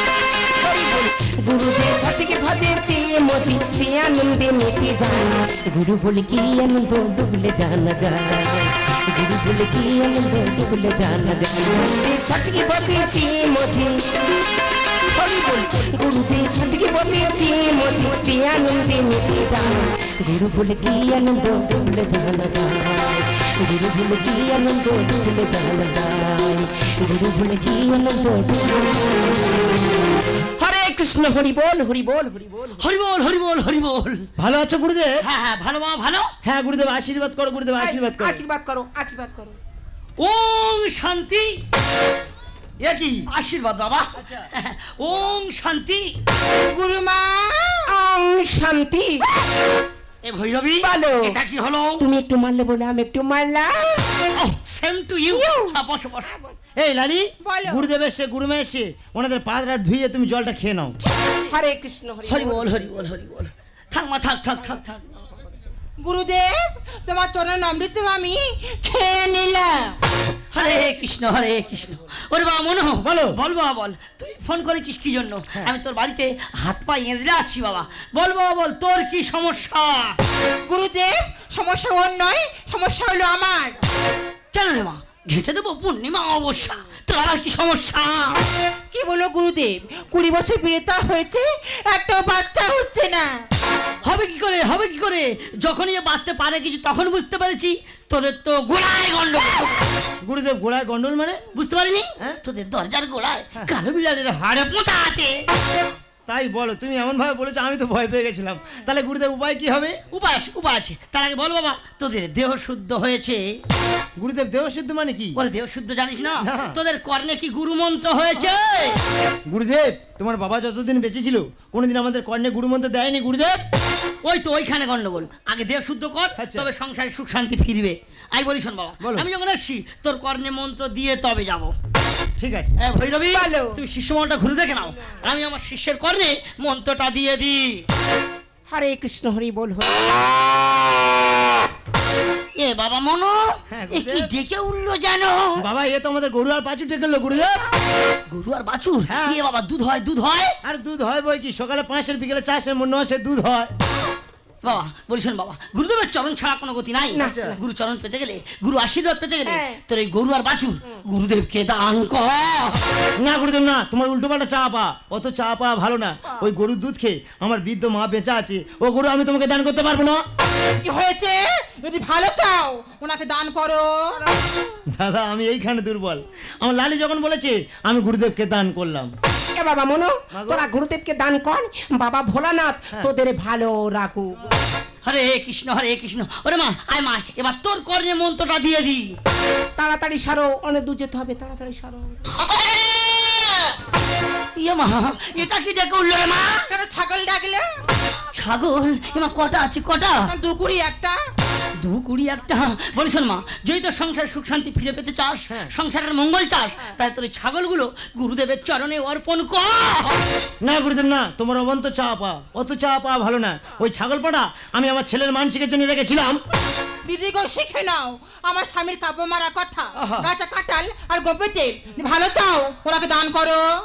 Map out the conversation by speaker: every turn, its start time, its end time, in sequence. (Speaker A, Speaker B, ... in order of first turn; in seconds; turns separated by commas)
Speaker A: 0.6-13.9, Speaker A: 15.1-29.4, Speaker A: 30.6-32.8, Speaker B: 32.8-34.3, Speaker C: 34.4-35.1, Speaker B: 35.2-36.3, Speaker C: 36.4-38.4, Speaker A: 37.8-39.6, Speaker B: 40.2-41.6, Speaker C: 42.8-43.2, Speaker B: 43.3-46.2, Speaker C: 44.2-44.4, Speaker D: 46.6-47.9, Speaker A: 47.9-49.3, Speaker B: 50.2-52.0, Speaker A: 50.8-51.4, Speaker A: 52.0-54.1, Speaker B: 54.3-56.3, Speaker A: 55.3-55.8, Speaker C: 56.8-60.9, Speaker D: 57.4-57.9, Speaker A: 61.3-62.6, Speaker B: 62.2-65.0, Speaker D: 66.0-69.9, Speaker B: 70.5-80.1, Speaker C: 73.0-73.4, Speaker D: 80.7-83.8, Speaker B: 84.5-88.4, Speaker D: 88.9-93.3, Speaker B: 94.0-99.7, Speaker C: 100.2-101.4, Speaker B: 101.5-105.4, Speaker C: 106.3-110.0, Speaker B: 110.1-113.5, Speaker C: 114.2-115.4, Speaker B: 115.4-119.0, Speaker C: 116.4-116.8, Speaker C: 119.5-123.6, Speaker B: 124.2-131.7, Speaker C: 126.4-126.7, Speaker C: 129.0-129.3, Speaker C: 132.4-132.7, Speaker B: 132.8-137.8, Speaker A: 133.3-133.8, Speaker A: 138.7-140.2, Speaker B: 142.6-145.6, Speaker C: 143.7-144.3, Speaker C: 145.6-147.6, Speaker B: 148.3-150.5, Speaker C: 149.1-149.4, Speaker C: 150.6-153.7, Speaker B: 154.6-162.8, Speaker A: 157.1-157.6, Speaker C: 157.2-157.6, Speaker A: 159.4-159.8, Speaker C: 163.2-170.2, Speaker D: 170.8-174.2, Speaker C: 175.0-179.1, Speaker A: 179.6-184.4, Speaker C: 180.3-180.6, Speaker B: 185.0-189.1, Speaker A: 189.8-192.2, Speaker B: 192.5-193.4, Speaker B: 194.6-196.7, Speaker D: 196.7-197.7, Speaker B: 198.3-200.3, Speaker D: 200.3-201.2, Speaker B: 201.8-210.2, Speaker C: 210.6-216.4, Speaker D: 217.1-223.6, Speaker C: 220.0-220.3